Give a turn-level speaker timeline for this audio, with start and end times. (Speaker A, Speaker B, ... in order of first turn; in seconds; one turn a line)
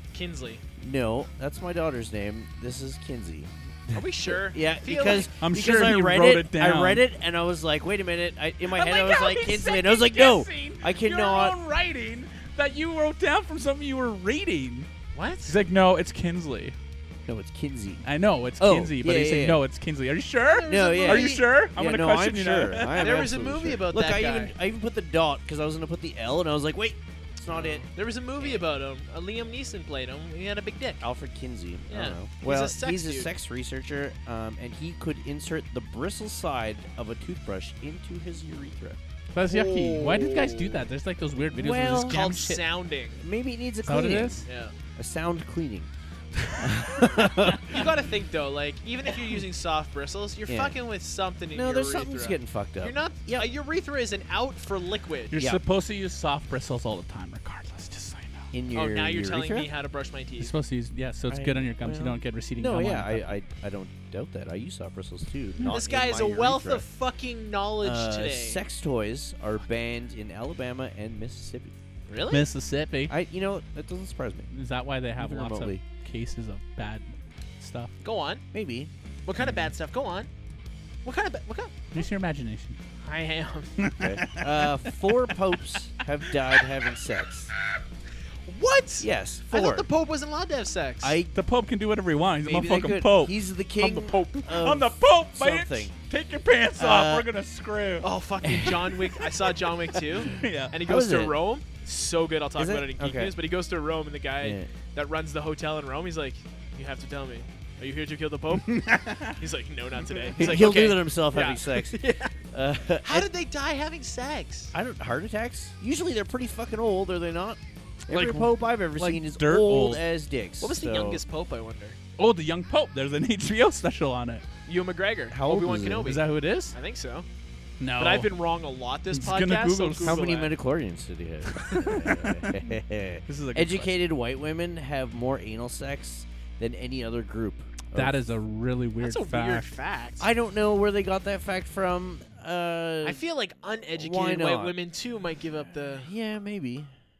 Speaker A: 0.1-0.6
Speaker B: 0.8-11.6
Speaker A: 3.9-5.3
Speaker C: 5.4-7.0
Speaker C: 8.7-14.9
Speaker A: 15.1-15.6
Speaker C: 15.5-16.8
Speaker B: 17.2-18.1
Speaker C: 18.0-23.3
Speaker B: 18.6-19.6
Speaker A: 20.4-21.4
Speaker B: 20.7-27.9
Speaker A: 22.9-24.5
Speaker A: 27.5-31.0
Speaker B: 31.0-39.0
Speaker A: 31.9-33.3
Speaker C: 39.3-42.6
Speaker A: 39.5-40.9
Speaker B: 41.5-42.2
Speaker A: 42.0-43.2
Speaker B: 43.2-44.4
Speaker C: 43.8-44.5
Speaker A: 44.5-44.7
Speaker B: 45.0-45.9
Speaker B: 46.5-47.9
Speaker A: 47.0-55.3
Speaker B: 50.5-50.8
Speaker B: 51.5-53.5
Speaker C: 55.3-58.5
Speaker B: 55.4-55.6
Speaker B: 58.5-59.7
Speaker A: 58.7-60.5
Speaker C: 60.4-63.4
Speaker B: 61.3-66.8
Speaker A: 65.7-68.6
Speaker B: 67.8-71.8
Speaker A: 72.1-72.4
Speaker C: 72.3-73.1
Speaker B: 73.1-74.5
Speaker C: 74.5-77.9
Speaker B: 75.2-75.8
Speaker A: 78.0-78.4
Speaker B: 78.5-78.9
Speaker A: 79.3-80.3
Speaker C: 79.4-79.7
Speaker A: 81.0-81.9
Speaker C: 81.9-82.8
Speaker A: 83.0-83.8
Speaker C: 83.8-84.7
Speaker B: 84.0-87.5
Speaker A: 88.5-91.2
Speaker B: 89.0-89.9
Speaker B: 91.0-91.4
Speaker C: 91.3-93.3
Speaker B: 92.4-95.9
Speaker A: 93.8-94.4
Speaker C: 94.5-98.1
Speaker B: 96.8-97.3
Speaker A: 98.0-112.3
Speaker B: 98.4-99.2
Speaker B: 100.2-101.3
Speaker C: 100.2-100.7
Speaker B: 102.6-103.3
Speaker B: 104.4-104.7
Speaker C: 108.8-109.4
Speaker B: 110.3-112.0
Speaker B: 112.5-113.3
Speaker A: 113.0-114.7
Speaker B: 114.7-121.2
Speaker C: 118.1-120.0
Speaker A: 120.6-122.0
Speaker C: 122.2-124.4
Speaker A: 124.7-127.3
Speaker B: 125.3-126.2
Speaker C: 125.9-126.8
Speaker C: 127.8-128.3
Speaker A: 128.0-130.5
Speaker C: 129.1-130.2
Speaker B: 130.0-138.3
Speaker C: 131.5-132.4
Speaker C: 133.3-134.0
Speaker C: 137.9-139.7
Speaker A: 139.0-140.3
Speaker B: 140.2-143.2
Speaker A: 143.0-146.1
Speaker B: 143.9-144.8
Speaker B: 145.9-146.9